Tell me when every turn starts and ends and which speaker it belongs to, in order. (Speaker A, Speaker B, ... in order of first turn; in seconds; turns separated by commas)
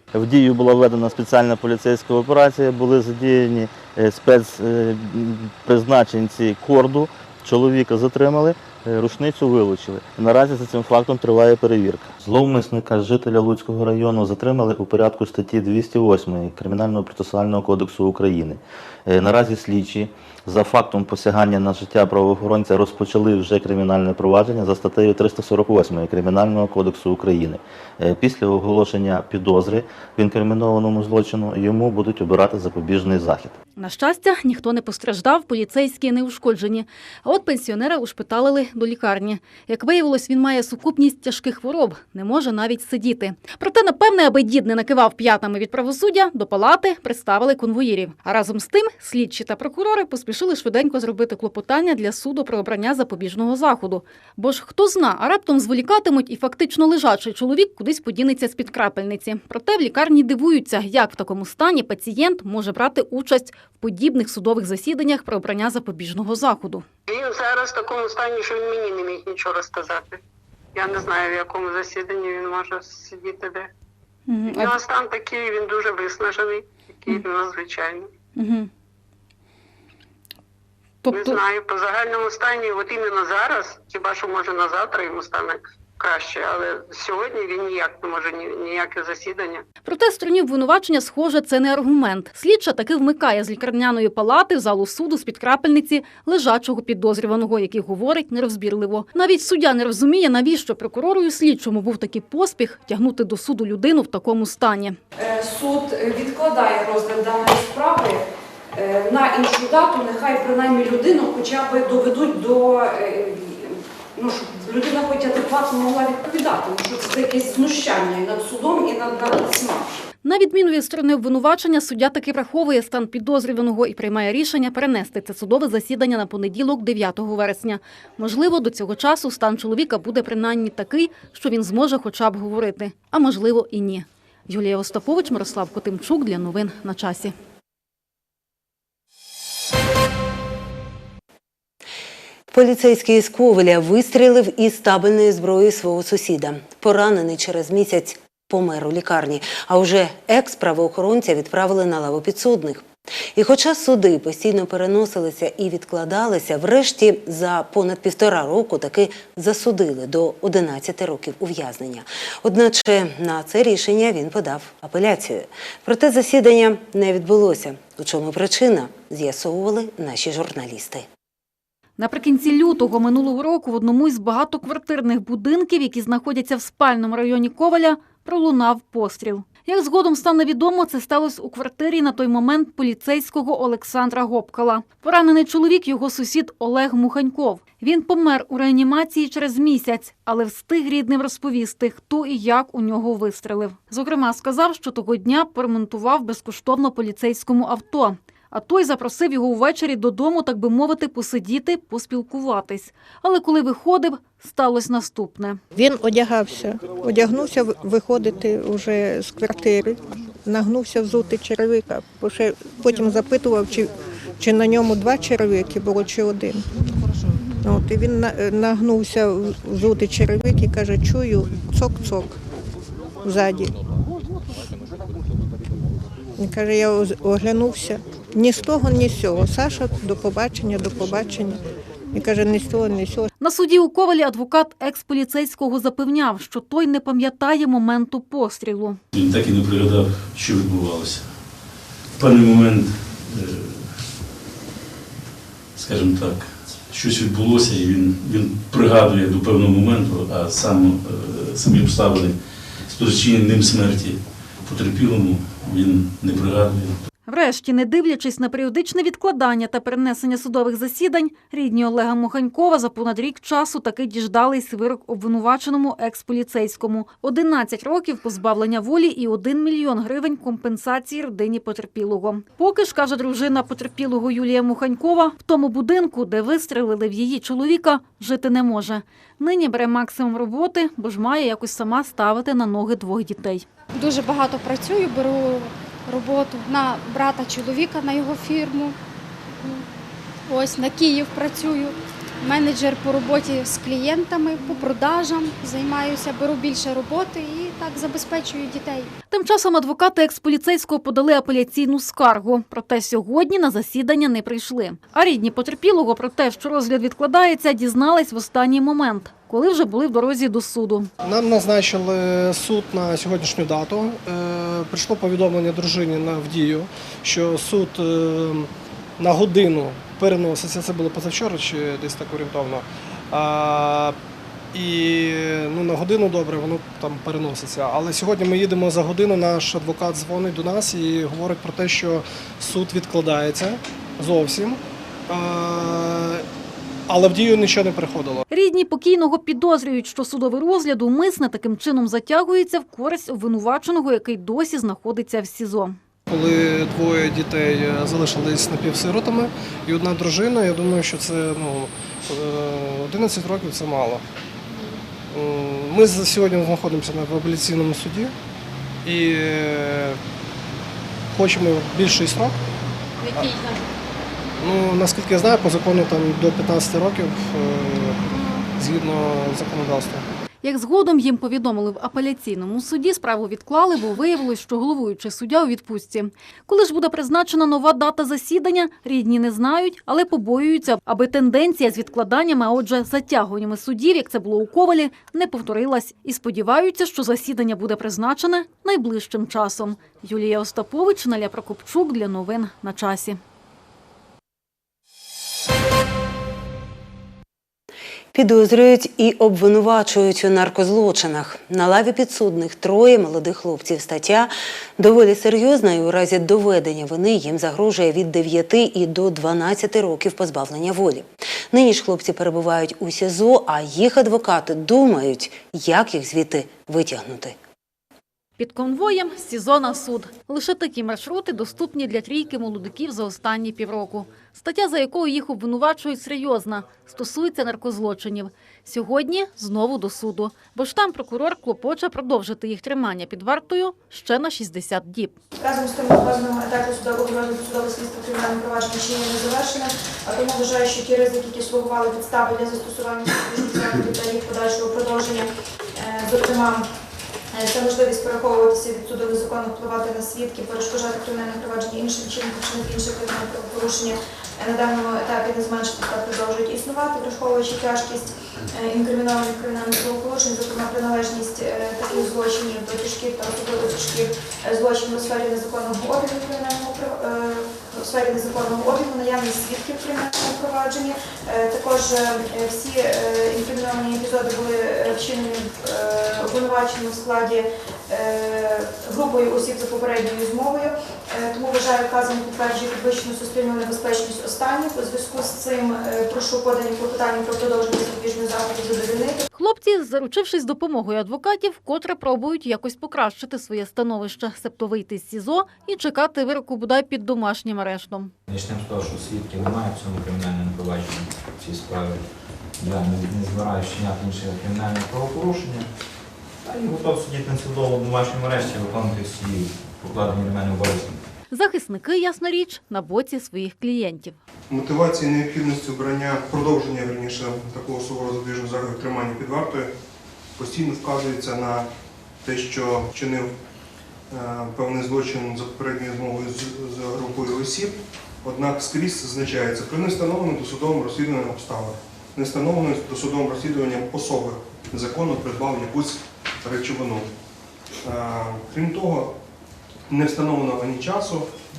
Speaker A: 0.1-33.6, Speaker B: 33.8-66.8, Speaker C: 67.1-70.2, Speaker C: 70.8-73.7, Speaker C: 74.5-78.1, Speaker B: 81.1-81.3, Speaker C: 81.1-89.7, Speaker B: 89.8-105.0, Speaker D: 105.2-120.0, Speaker B: 120.2-137.3, Speaker E: 142.5-171.1, Speaker B: 172.0-205.6, Speaker F: 205.8-216.7, Speaker F: 217.6-222.4, Speaker F: 223.2-223.7, Speaker F: 226.4-233.3, Speaker B: 233.4-239.0, Speaker G: 239.1-244.1, Speaker G: 245.8-257.0, Speaker B: 257.3-283.6, Speaker H: 283.9-288.9, Speaker H: 289.6-289.9, Speaker H: 290.5-299.1, Speaker B: 299.3-311.1, Speaker I: 311.2-324.1, Speaker I: 324.7-334.8, Speaker I: 335.3-336.4, Speaker I: 337.1-338.4, Speaker B: 338.5-346.0, Speaker I: 346.3-354.2, Speaker I: 355.3-358.3, Speaker I: 359.1-360.2, Speaker I: 361.4-362.5, Speaker H: 363.2-363.8, Speaker I: 364.6-368.2, Speaker I: 368.8-370.2, Speaker B: 370.6-393.4, Speaker E: 398.3-417.6, Speaker B: 418.6-435.4, Speaker J: 435.6-446.9, Speaker J: 447.5-489.4, Speaker B: 489.5-498.3, Speaker K: 498.5-505.9, Speaker K: 506.6-511.2, Speaker B: 511.5-514.4, Speaker L: 514.7-519.9, Speaker L: 520.6-521.9, Speaker L: 522.4-523.5, Speaker L: 524.3-537.3, Speaker L: 538.0-539.3, Speaker L: 540.1-541.5